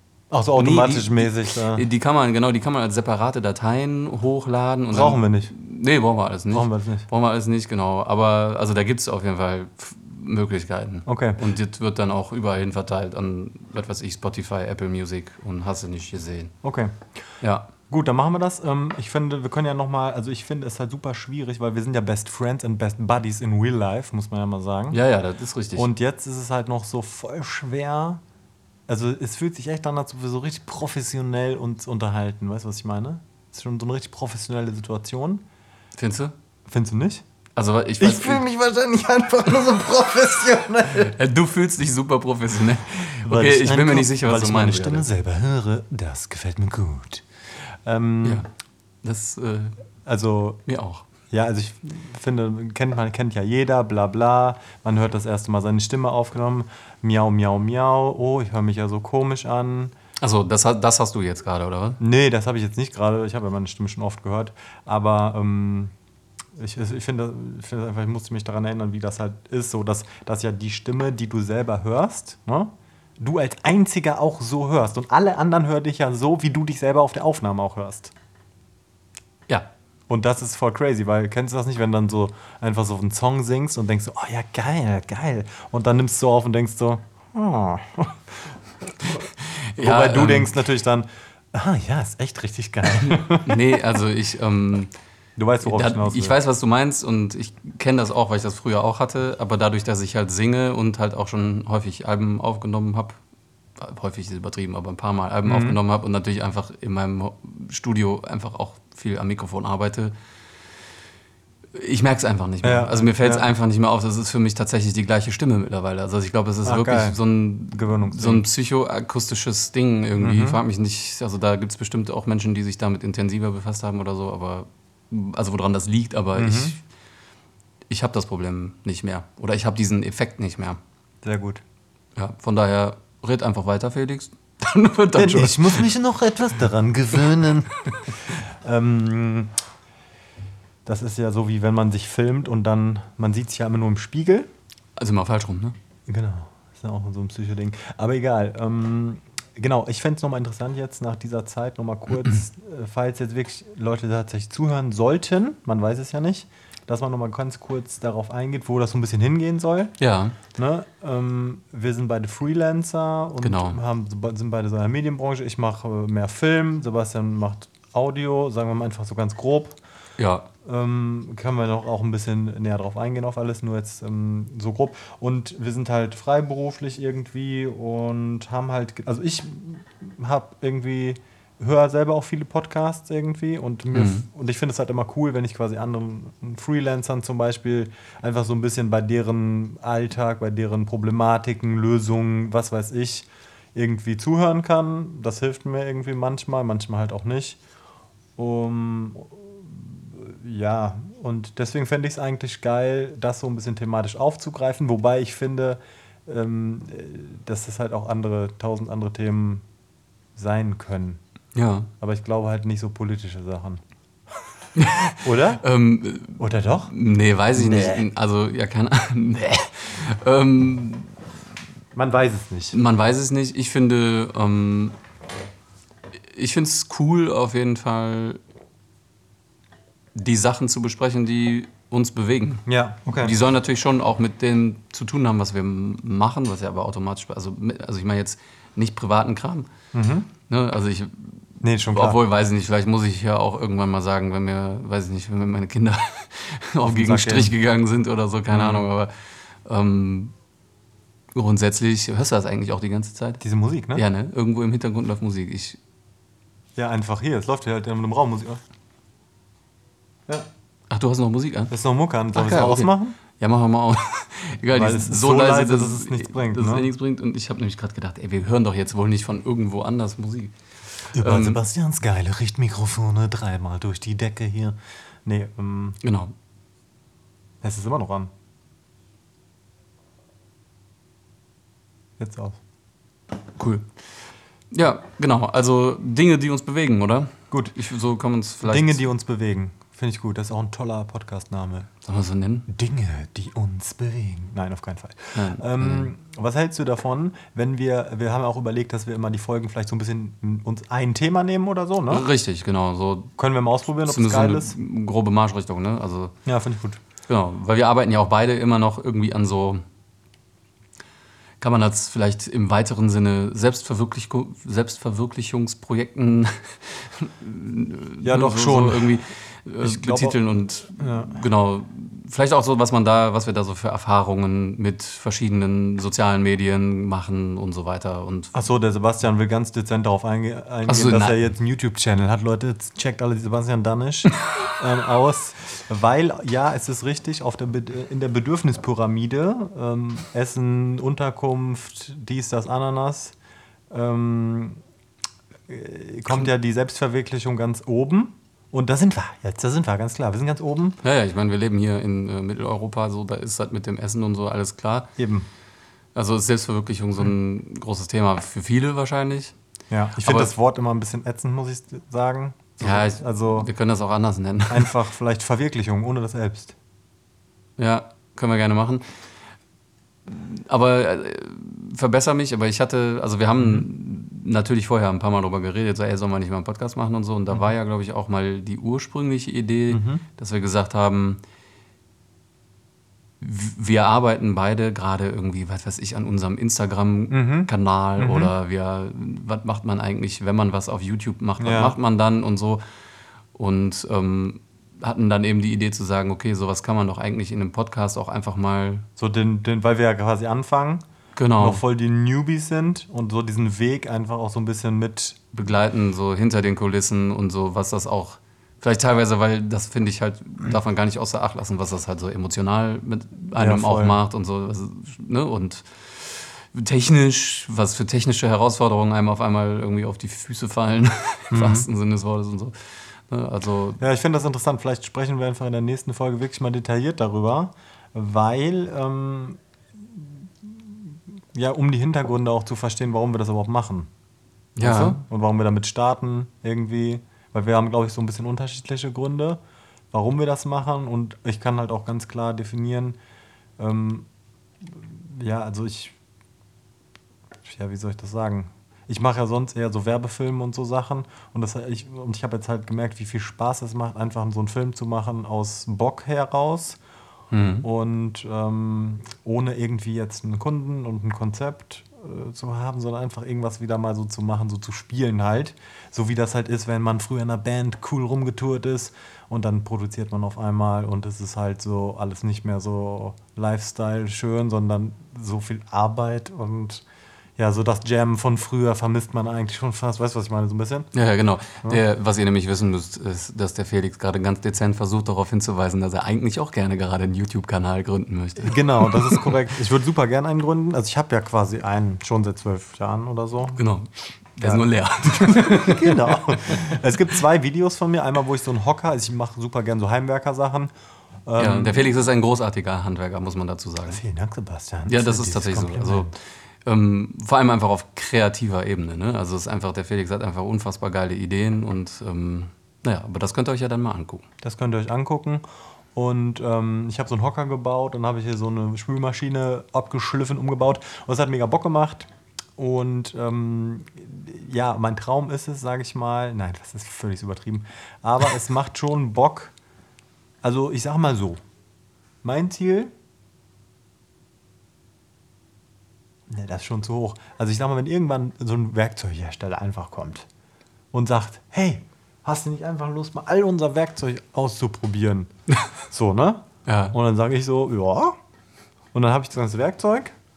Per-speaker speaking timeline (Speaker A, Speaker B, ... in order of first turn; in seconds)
Speaker A: 0.3-1.9, 4.9-5.5, 6.5-7.1, 11.1-11.4, 16.6-17.0, 17.9-25.0, 25.8-28.2, 28.9-35.4, 36.7-37.2, 38.0-41.2, 43.2-47.2, 47.9-48.5, 50.0-50.6, 51.3-59.9, 62.0-65.9, 66.6-78.1, 80.1-93.8, 95.4-96.4, 105.5-105.8, 112.6-113.5, 116.7-117.2, 117.7-118.5, 120.2-120.6, 126.4-126.8, 131.2-131.6, 135.2-139.5, 140.9-144.5, 146.1-160.0, 160.5-169.8, 170.6-197.6, 198.4-209.6, 210.4-211.2, 212.0-213.8, 215.2-215.6, 216.4-216.9, 217.5-218.1, 221.9-222.8, 232.7-233.4, 239.9-240.3, 241.6-242.2, 246.8-247.6, 248.5-248.9, 253.4-254.1, 256.8-258.6, 261.7-263.2, 264.7-266.9, 271.1-276.0, 277.6-278.3, 282.2-282.6, 288.6-291.9, 292.7-302.3, 303.4-304.8, 306.5-307.0, 318.2-319.2, 319.8-320.4, 321.0-321.4, 328.5-343.4, 343.9-344.8, 345.7-351.0, 355.2-355.5, 359.9-363.7, 364.7-366.8, 373.6-373.9, 379.9-380.2, 387.3-388.5, 391.6-392.0, 399.2-401.0, 401.6-405.4, 413.6-414.2, 421.5-421.9, 424.0-434.1, 434.8-439.6, 440.1-443.2, 443.8-444.3, 444.8-446.2, 447.6-457.0, 457.8-477.1, 477.6-481.1, 488.6-493.8, 494.6-500.9, 501.5-502.1, 504.1-506.3, 514.6-515.6, 516.1-529.7, 530.6-531.6, 532.4-533.1, 536.5-540.5, 541.1-545.5, 546.1-548.4, 549.1-550.4
Speaker B: 0.6-16.5, 17.4-17.7, 24.9-25.9, 36.0-36.3, 37.6-38.4, 41.0-45.1, 48.2-48.5, 49.0-49.8, 50.7-51.1, 60.2-62.0, 89.0-90.6, 92.9-94.9, 95.6-103.2, 103.8-110.1, 111.7-126.8, 127.9-130.8, 132.2-135.9, 145.0-145.8, 160.0-160.4, 163.4-163.8, 170.2-170.5, 183.9-184.3, 211.6-211.9, 214.8-221.1, 222.7-225.0, 226.3-228.4, 230.2-232.6, 233.2-239.7, 240.5-249.1, 249.7-250.3, 251.3-253.4, 253.9-255.8, 260.9-261.7, 262.3-271.6, 276.0-276.3, 283.6-283.9, 284.7-289.0, 292.1-292.7, 295.4-296.1, 302.1-303.3, 304.1-306.3, 307.3-309.8, 311.6-328.5, 330.9-331.4, 351.0-355.1, 356.1-359.5, 360.2-360.5, 362.8-364.9, 367.8-369.1, 370.3-381.4, 383.4-392.8, 393.6-399.1, 401.4-401.8, 405.5-422.8, 423.3-424.0, 434.8-435.2, 457.5-457.9, 481.1-489.5, 493.8-496.9, 501.6-504.2, 505.1-506.3, 506.9-514.5, 546.9-547.2